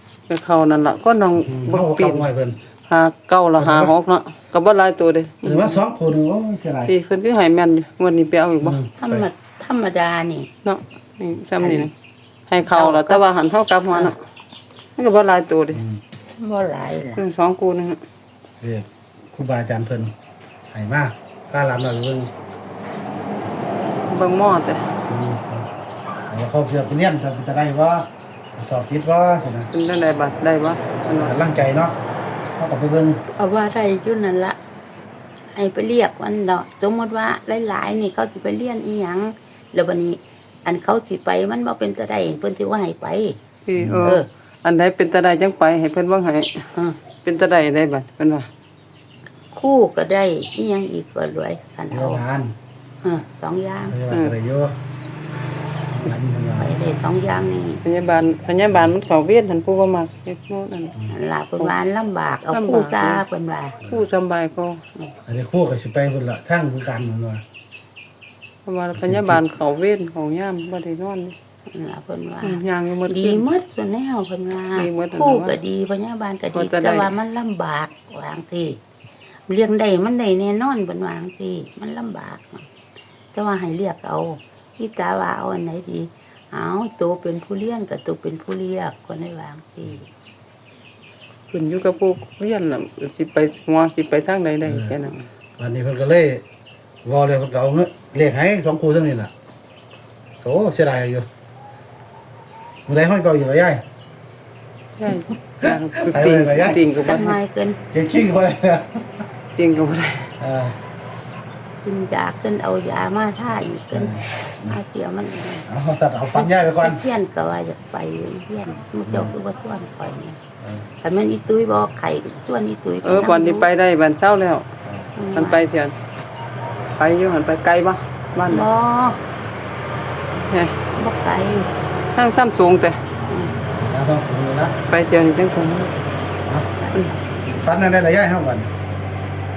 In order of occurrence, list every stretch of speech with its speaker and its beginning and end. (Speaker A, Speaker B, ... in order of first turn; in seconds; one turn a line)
Speaker A: 0.3-2.2
Speaker B: 1.4-2.6
Speaker A: 2.9-5.8
Speaker B: 3.6-3.9
Speaker B: 5.4-6.9
Speaker A: 6.8-8.8
Speaker B: 8.6-9.3
Speaker C: 9.0-10.5
Speaker A: 10.6-11.9
Speaker C: 11.6-11.9
Speaker A: 12.5-14.2
Speaker C: 12.7-13.2
Speaker A: 14.9-15.8
Speaker B: 15.7-16.0
Speaker C: 16.4-17.2
Speaker A: 17.1-18.0
Speaker B: 18.6-20.1
Speaker B: 20.7-22.3
Speaker A: 24.1-24.9
Speaker B: 25.1-25.7
Speaker B: 26.3-29.7
Speaker A: 29.7-31.3
Speaker B: 31.2-32.0
Speaker B: 32.5-33.2
Speaker C: 33.3-34.6
Speaker C: 35.5-43.4
Speaker A: 43.6-46.6
Speaker B: 43.8-44.1
Speaker C: 44.0-44.3
Speaker C: 46.7-47.0
Speaker A: 47.2-48.5
Speaker C: 49.5-52.2
Speaker B: 51.9-52.5
Speaker C: 53.0-54.0
Speaker B: 53.9-54.8
Speaker A: 54.1-54.3
Speaker B: 55.9-56.8
Speaker C: 56.6-57.8
Speaker A: 57.8-61.0
Speaker C: 61.1-63.8
Speaker A: 62.5-63.2
Speaker A: 63.8-64.8
Speaker B: 65.2-67.4
Speaker A: 68.7-71.3
Speaker B: 69.0-69.4
Speaker C: 71.7-78.8
Speaker A: 72.4-73.5
Speaker A: 74.7-75.6
Speaker A: 76.5-77.1
Speaker C: 79.5-82.7
Speaker C: 83.3-90.1
Speaker A: 91.5-95.2
Speaker B: 94.6-94.9
Speaker B: 95.6-96.4
Speaker B: 97.0-99.3
Speaker B: 100.4-101.3
Speaker B: 102.9-103.8
Speaker A: 105.0-107.4
Speaker B: 105.6-106.8
Speaker C: 106.9-107.8
Speaker B: 107.9-109.2
Speaker A: 109.5-110.3
Speaker B: 110.4-110.8
Speaker C: 111.8-115.7
Speaker B: 113.9-114.8
Speaker B: 115.7-117.0
Speaker C: 116.3-120.4
Speaker B: 119.1-119.3
Speaker B: 120.6-120.9
Speaker C: 121.0-123.7
Speaker A: 123.0-124.7
Speaker B: 124.8-125.1
Speaker C: 125.2-125.6
Speaker A: 125.3-125.9
Speaker A: 127.0-128.7
Speaker C: 128.4-129.2
Speaker A: 130.4-130.8
Speaker C: 130.9-131.7
Speaker A: 132.1-133.0
Speaker C: 133.3-133.6
Speaker B: 133.7-134.7
Speaker A: 134.9-135.9
Speaker B: 136.4-136.7
Speaker C: 136.8-137.1
Speaker B: 137.5-138.7